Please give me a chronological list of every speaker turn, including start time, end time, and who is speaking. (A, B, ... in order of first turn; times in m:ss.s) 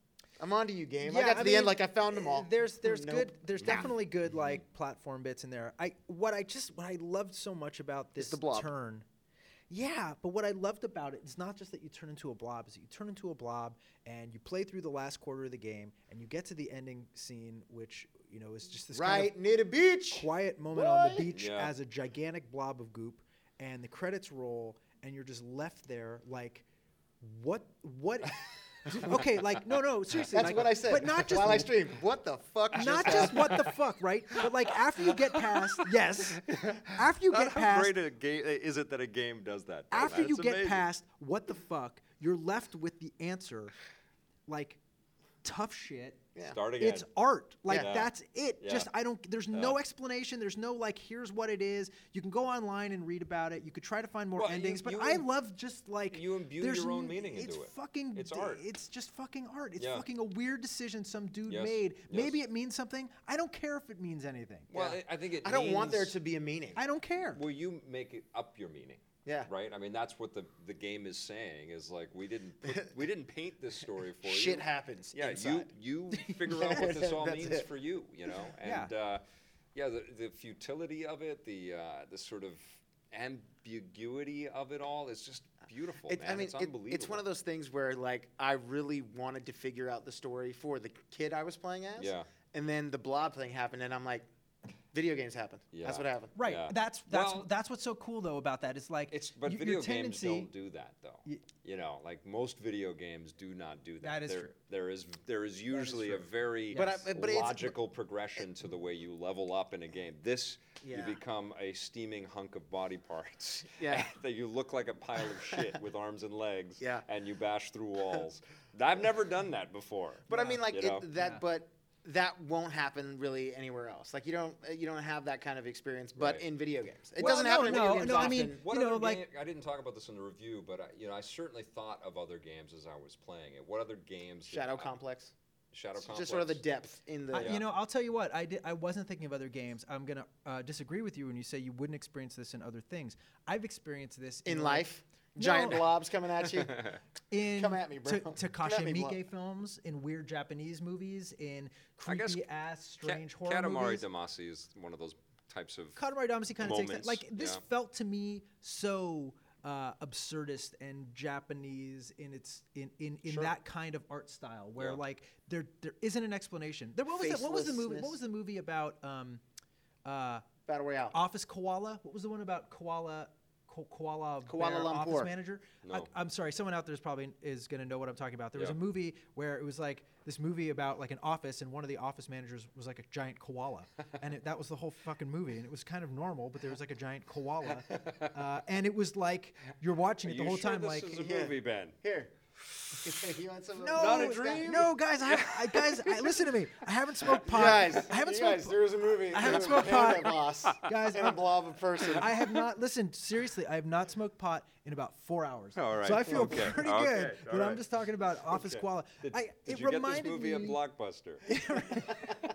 0:00.4-0:03.9 A
0:01.0-0:09.0 B
0:08.2-0:08.7 A
0:09.7-0:19.3 B
0:18.9-0:21.3 A
0:20.1-0:26.6 B
0:21.3-0:21.7 C
0:27.2-0:31.7 B
0:30.3-0:33.6 A
0:32.7-0:38.0 B
0:32.8-0:33.8 C
0:35.0-0:35.8 C
0:36.4-0:40.8 C
0:39.9-0:43.8 B
0:44.5-0:44.8 B
0:45.4-0:46.3 B
0:46.5-0:47.1 C
0:46.8-1:04.7 B
0:47.7-0:48.9 C
0:54.4-0:55.3 C
0:56.1-0:58.6 C
0:59.8-1:00.0 C
1:01.5-1:02.4 C
1:04.7-1:06.2 C
1:04.7-1:06.8 A
1:06.8-1:07.4 B
1:07.2-1:19.2 C
1:09.2-1:09.5 A
1:12.6-1:12.9 A
1:14.2-1:15.7 A
1:16.3-1:16.6 B
1:16.3-1:17.7 A
1:18.6-1:18.9 B
1:19.8-1:27.3 C
1:26.1-1:34.3 A
1:32.0-1:32.3 C
1:34.9-1:36.3 A
1:35.7-1:37.5 C
1:36.4-1:40.5 B
1:39.1-2:01.1 C
1:44.0-1:44.5 B
1:45.7-1:47.0 B
1:46.7-1:47.8 A
1:50.8-1:51.2 A
1:53.8-1:54.1 A
1:55.2-1:55.7 A
1:56.8-1:57.0 A
2:00.3-2:08.6 A
2:00.3-2:00.6 B
2:01.2-2:01.4 B
2:06.2-2:06.4 C
2:07.2-2:09.2 B
2:07.6-2:14.9 C
2:14.5-2:15.3 A
2:15.7-2:16.6 C
2:16.0-2:17.6 A
2:17.3-2:25.8 B
2:17.4-2:17.6 C
2:24.5-2:26.9 A
2:26.5-2:27.0 C
2:27.3-2:34.1 B
2:27.5-2:29.2 A
2:32.1-2:32.5 C
2:33.0-2:36.0 C
2:36.0-2:49.4 B
2:36.6-2:37.6 C
2:47.1-2:48.2 A
2:50.0-2:50.5 B
2:50.7-2:51.2 A
2:51.1-3:11.2 B
2:54.5-2:55.3 A
2:55.8-2:56.1 C
3:07.9-3:08.3 C
3:10.2-3:12.0 C
3:11.1-3:12.3 A
3:12.8-3:13.2 C
3:13.0-3:14.8 A
3:13.8-3:18.8 B
3:14.0-3:16.5 C
3:17.2-3:17.9 C
3:17.5-3:22.6 A
3:19.3-3:21.4 B
3:19.4-3:20.8 C
3:22.0-3:22.4 C
3:22.1-3:30.8 B
3:25.8-3:32.0 C
3:31.4-3:32.4 B